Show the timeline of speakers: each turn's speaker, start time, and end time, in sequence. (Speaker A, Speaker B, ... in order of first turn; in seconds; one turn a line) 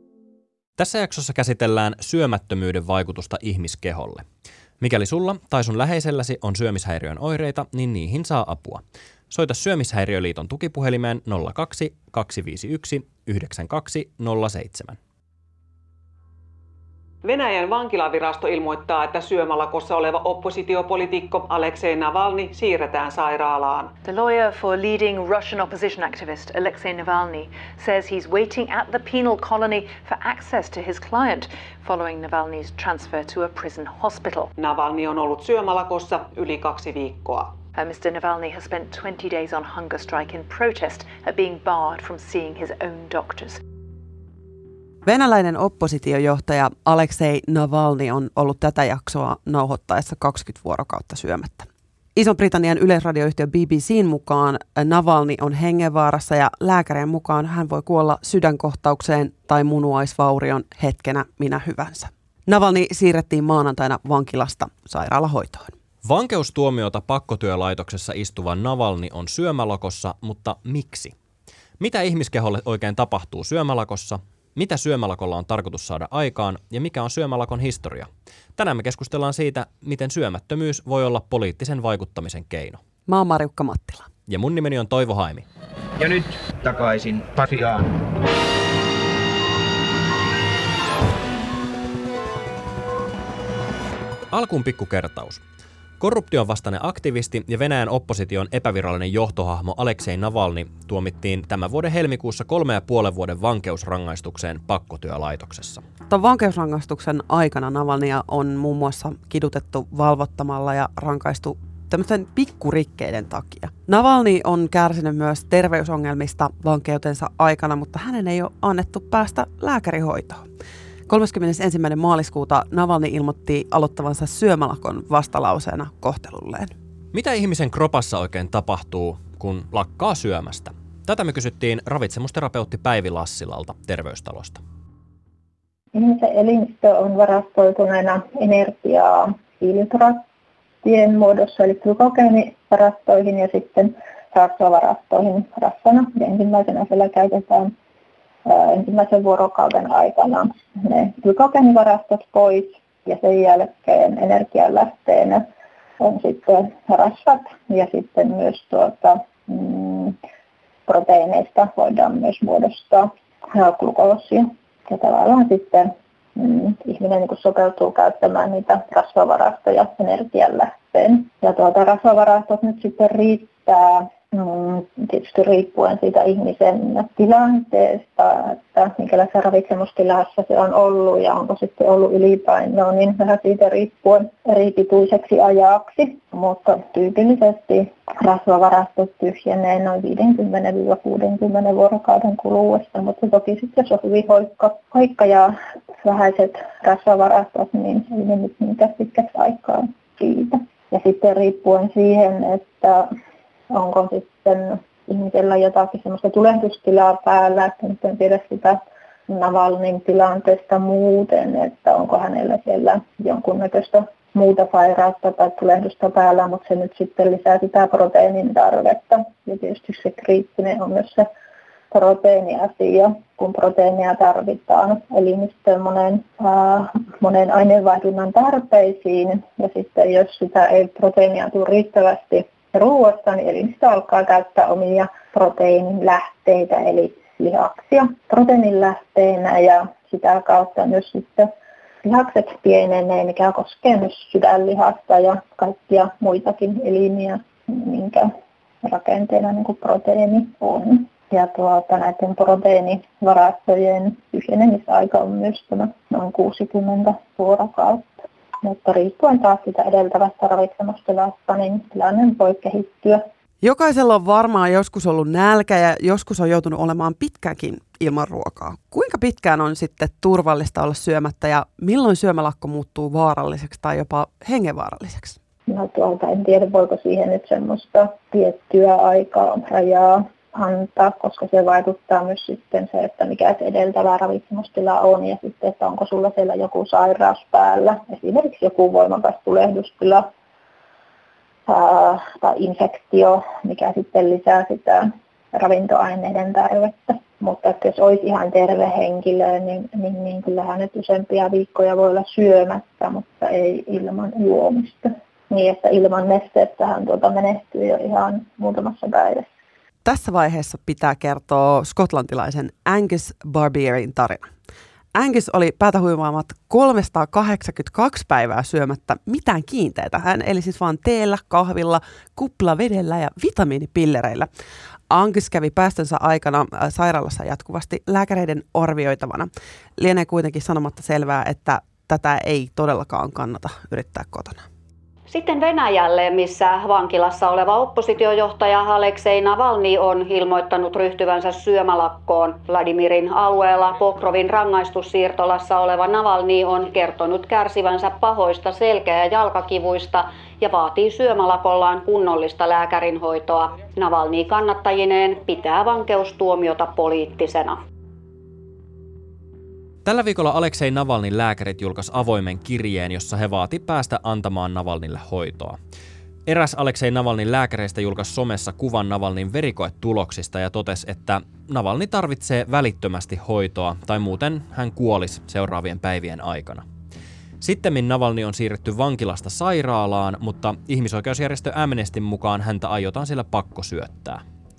Speaker A: 0.8-4.2
Speaker A: 4.8-15.0
Speaker B: 17.2-23.9
Speaker C: 24.0-34.5
Speaker B: 34.6-37.5
Speaker C: 37.7-43.6
Speaker D: 45.0-65.7
Speaker A: 66.0-71.1
Speaker A: 71.8-82.8
Speaker D: 83.1-84.1
Speaker A: 84.3-85.5
Speaker E: 86.0-88.0
Speaker A: 94.3-95.4
Speaker A: 96.0-105.8
Speaker D: 106.1-120.5
Speaker D: 121.1-126.7
Speaker A: 127.1-134.6
Speaker F: 135.9-140.2
Speaker F: 140.8-147.7
Speaker F: 148.5-155.4
Speaker F: 156.0-160.2
Speaker F: 160.9-203.1
Speaker F: 203.7-221.3
Speaker F: 221.9-241.5
Speaker F: 242.0-248.3
Speaker F: 248.8-263.2
Speaker D: 263.6-275.4
Speaker F: 275.7-290.3
Speaker F: 291.7-309.5
Speaker D: 310.1-314.5
Speaker D: 315.1-324.5
Speaker D: 325.1-334.6
Speaker G: 335.3-357.8
Speaker A: 360.1-365.8
Speaker A: 366.5-376.9
Speaker A: 377.6-384.4